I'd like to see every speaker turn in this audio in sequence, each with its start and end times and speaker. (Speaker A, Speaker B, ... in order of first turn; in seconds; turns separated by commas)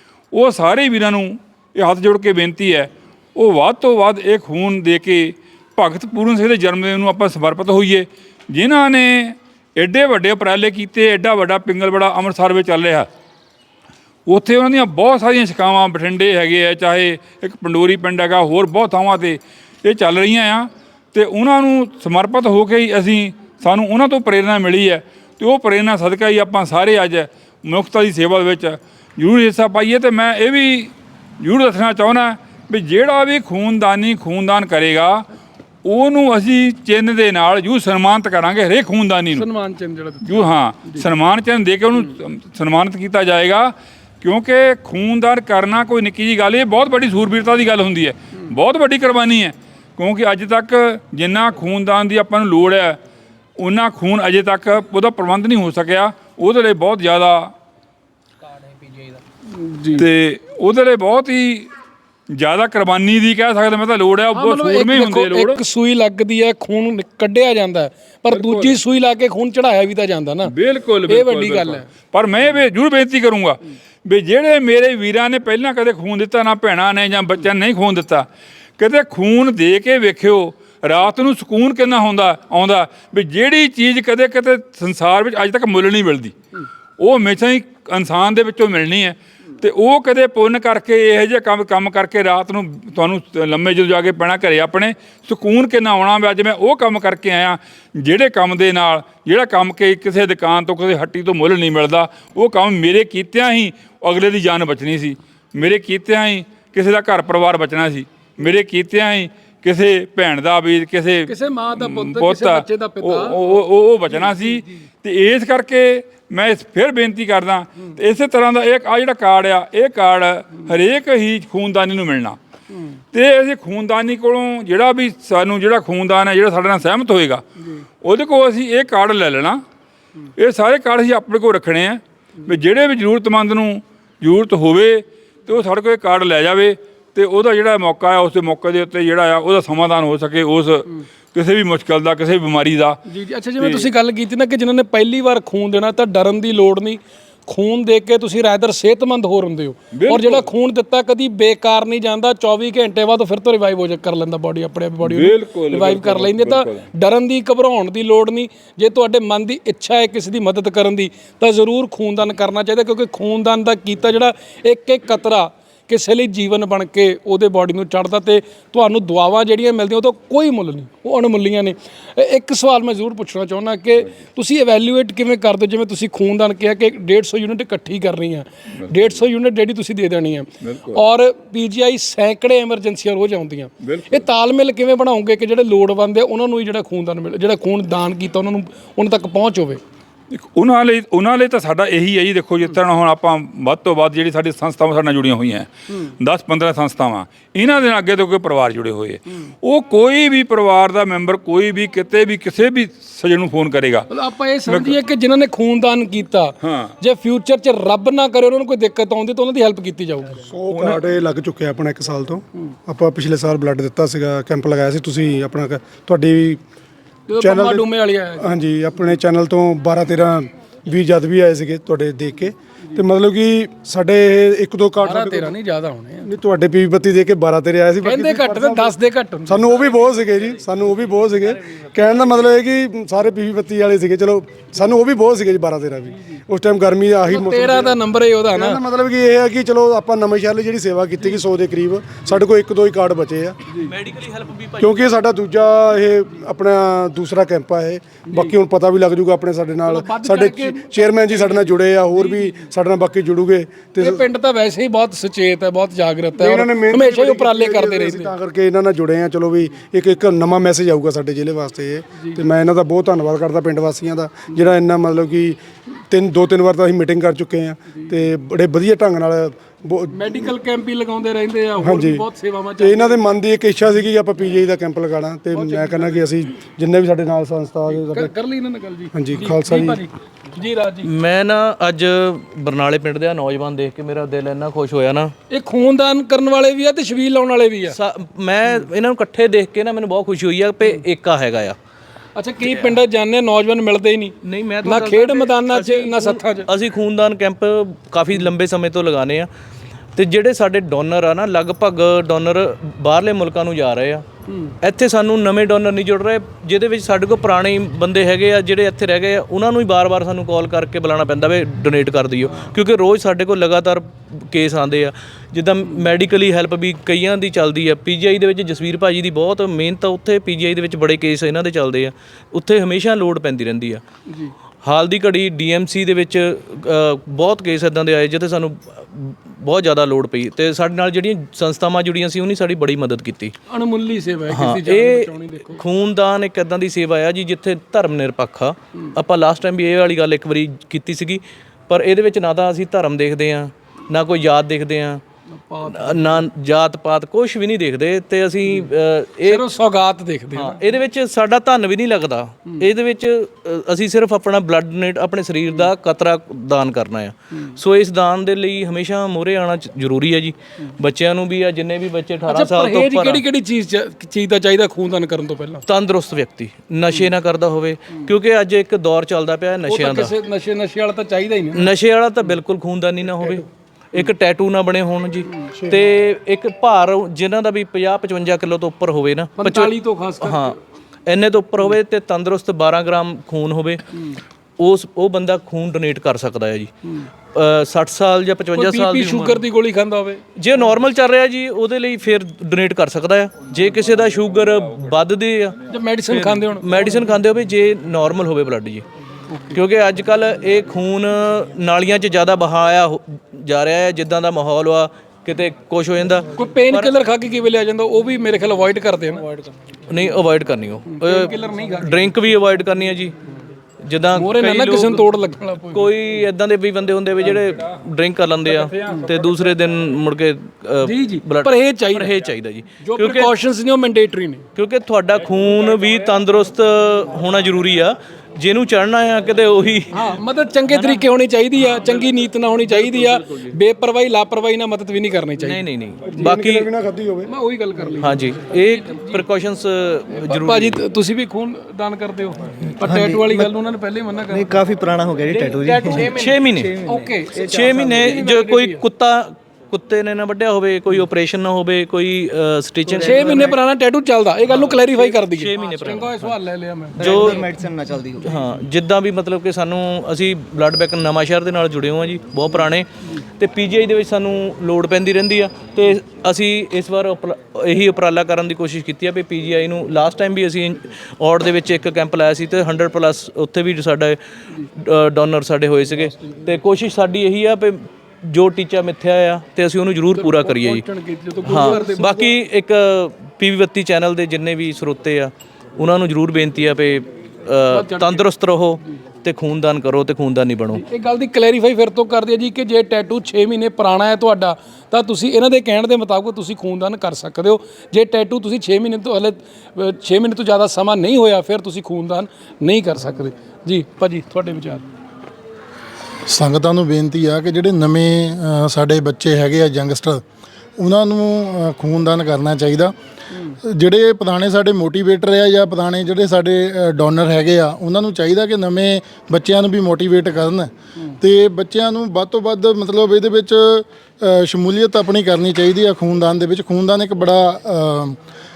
Speaker A: 0.3-13.1, Speaker A: 14.3-35.2, Speaker A: 35.8-39.5, Speaker B: 39.3-41.1, Speaker A: 40.2-53.0, Speaker A: 53.6-57.5, Speaker B: 59.5-60.1, Speaker A: 60.0-61.7, Speaker A: 62.3-65.6, Speaker B: 64.3-70.5, Speaker A: 68.3-68.8, Speaker A: 70.5-78.3, Speaker B: 71.1-71.9, Speaker A: 78.8-86.3, Speaker A: 87.0-122.4, Speaker B: 111.3-113.6, Speaker B: 114.2-114.6, Speaker A: 123.1-127.4, Speaker A: 128.0-129.6, Speaker A: 130.4-143.0, Speaker B: 143.1-189.8, Speaker A: 143.6-143.9, Speaker A: 149.9-150.5, Speaker A: 155.0-156.9, Speaker A: 180.6-181.0, Speaker A: 183.8-184.3, Speaker A: 190.3-204.1, Speaker B: 204.1-210.4, Speaker A: 204.7-205.0, Speaker A: 206.6-206.9, Speaker C: 210.5-216.6, Speaker A: 210.7-211.0, Speaker B: 217.3-218.5, Speaker C: 217.4-217.9, Speaker C: 218.4-225.5, Speaker B: 225.0-226.3, Speaker C: 226.2-228.9, Speaker B: 228.0-230.0, Speaker C: 229.5-238.0, Speaker B: 237.3-238.8, Speaker C: 238.5-243.6, Speaker D: 243.8-245.1, Speaker C: 244.8-254.2, Speaker B: 249.9-252.6, Speaker B: 254.0-258.3, Speaker C: 256.4-270.5, Speaker B: 270.1-273.3, Speaker C: 271.8-272.3, Speaker C: 272.8-278.3, Speaker B: 275.5-276.3, Speaker B: 277.9-281.1, Speaker C: 279.1-280.0, Speaker D: 281.0-285.3, Speaker B: 285.5-288.0, Speaker D: 287.9-291.8, Speaker B: 292.4-296.7, Speaker D: 292.6-292.9, Speaker D: 294.4-299.5, Speaker D: 300.2-304.3, Speaker B: 304.5-304.7, Speaker D: 304.8-324.0, Speaker B: 324.3-324.5, Speaker D: 324.8-333.6, Speaker B: 333.7-335.8, Speaker D: 334.5-345.2, Speaker B: 345.5-346.4, Speaker D: 345.9-349.7, Speaker B: 349.4-350.8, Speaker D: 350.6-363.4, Speaker B: 362.5-365.9, Speaker D: 365.9-370.3, Speaker B: 369.9-371.9, Speaker D: 371.7-384.1, Speaker B: 379.6-380.8, Speaker D: 384.8-386.9, Speaker D: 387.5-389.6, Speaker B: 388.8-390.4, Speaker D: 390.6-395.8, Speaker B: 395.9-397.1, Speaker D: 396.3-399.1, Speaker D: 399.7-407.1, Speaker B: 406.6-409.5, Speaker D: 410.1-413.4, Speaker B: 411.1-412.3, Speaker D: 414.0-415.2, Speaker B: 414.4-416.1, Speaker D: 415.9-423.6, Speaker A: 418.7-419.3, Speaker B: 421.0-422.4, Speaker B: 423.0-424.6, Speaker D: 424.8-430.4, Speaker B: 430.1-435.8, Speaker D: 430.9-431.3, Speaker D: 432.9-433.8, Speaker D: 435.6-436.9, Speaker C: 436.3-437.5, Speaker B: 437.5-439.4, Speaker D: 438.2-441.0, Speaker B: 440.3-444.7, Speaker E: 443.0-443.7, Speaker E: 444.5-448.4, Speaker B: 445.5-449.0, Speaker D: 446.0-447.0, Speaker D: 447.6-453.8, Speaker E: 453.1-453.8, Speaker B: 453.2-457.6, Speaker D: 454.7-456.6, Speaker E: 457.2-458.6, Speaker D: 457.2-457.7, Speaker D: 458.4-481.0, Speaker B: 480.4-482.5, Speaker D: 481.6-491.0, Speaker B: 487.9-488.4, Speaker B: 490.9-505.1, Speaker F: 506.5-510.4, Speaker F: 511.0-513.1, Speaker F: 513.8-528.4